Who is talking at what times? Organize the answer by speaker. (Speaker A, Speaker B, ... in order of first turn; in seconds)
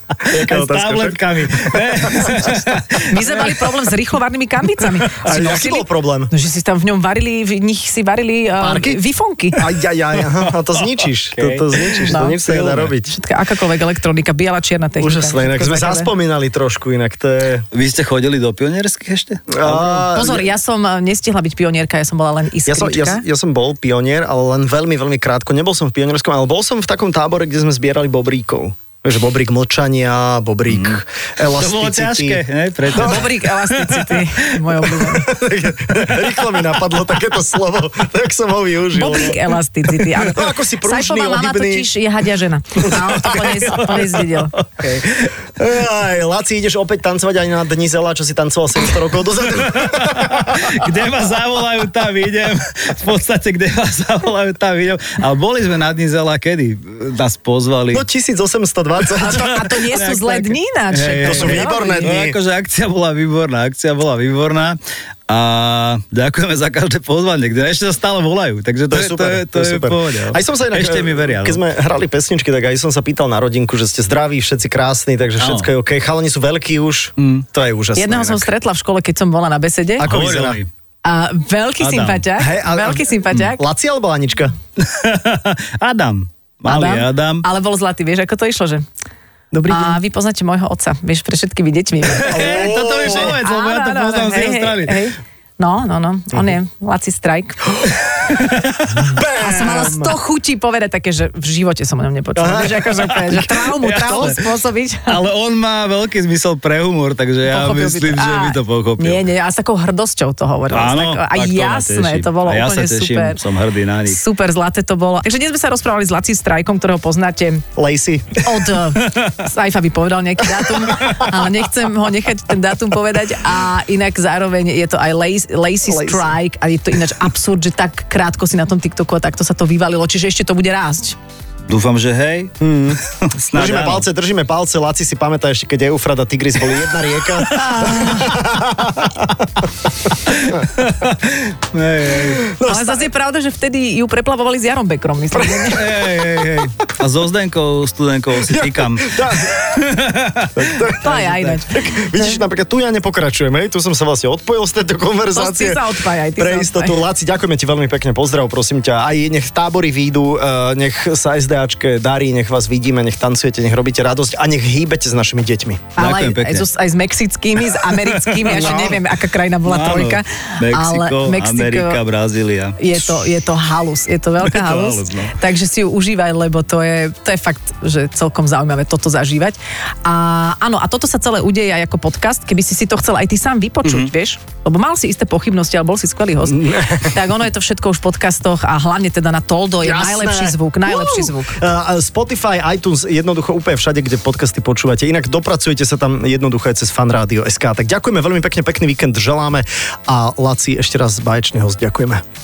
Speaker A: 0.2-2.7, 5.2-6.3, 8.6-9.0, 9.6-13.2, 15.0-17.7, 19.5-20.5, 22.7-32.4, 32.9-33.2, 35.0-39.4, 40.1-41.9, 45.6-50.8, 57.9-59.7, 61.2-62.4, 68.9-78.5, 80.0-80.6, 82.4-84.5, 89.5-90.0, 92.3-93.4, 99.0-100.2, 102.4-103.2, 117.8-118.5, 125.9-126.3, 132.6-133.0, 133.5-139.7, 142.2-143.1, 145.3-145.8, 148.4-149.7, 150.6-155.8, 156.4-165.9, 168.5-169.0, 186.5-187.2, 189.8-202.2
Speaker B: 0.2-3.8, 10.4-12.9, 17.7-20.1, 30.7-31.0, 31.5-34.9, 36.0-36.6, 42.9-45.4, 49.7-58.1, 59.2-71.6, 75.4-75.7, 77.2-77.5, 80.0-80.7, 81.8-82.2, 84.8-87.5, 92.1-95.0, 98.1-99.0, 103.2-104.5, 105.1-109.2, 110.7-114.2, 131.7-132.6, 133.1-134.1, 137.4-138.3, 140.3-142.4, 145.7-151.6, 166.0-166.7, 167.8-169.0, 169.7-173.2, 174.4-175.3, 183.8-184.1
Speaker C: 3.1-9.6, 12.1-12.4, 13.1-16.1, 20.1-23.2, 32.9-35.3, 38.9-44.5, 59.2-62.1, 78.0-80.1, 81.0-83.6, 86.7-88.9, 89.7-97.7, 99.4-105.2, 107.5-113.4, 114.1-117.6, 118.4-131.2, 137.8-138.1, 142.7-145.9, 151.0-152.4, 155.3-157.0, 166.0-172.0, 172.8-191.6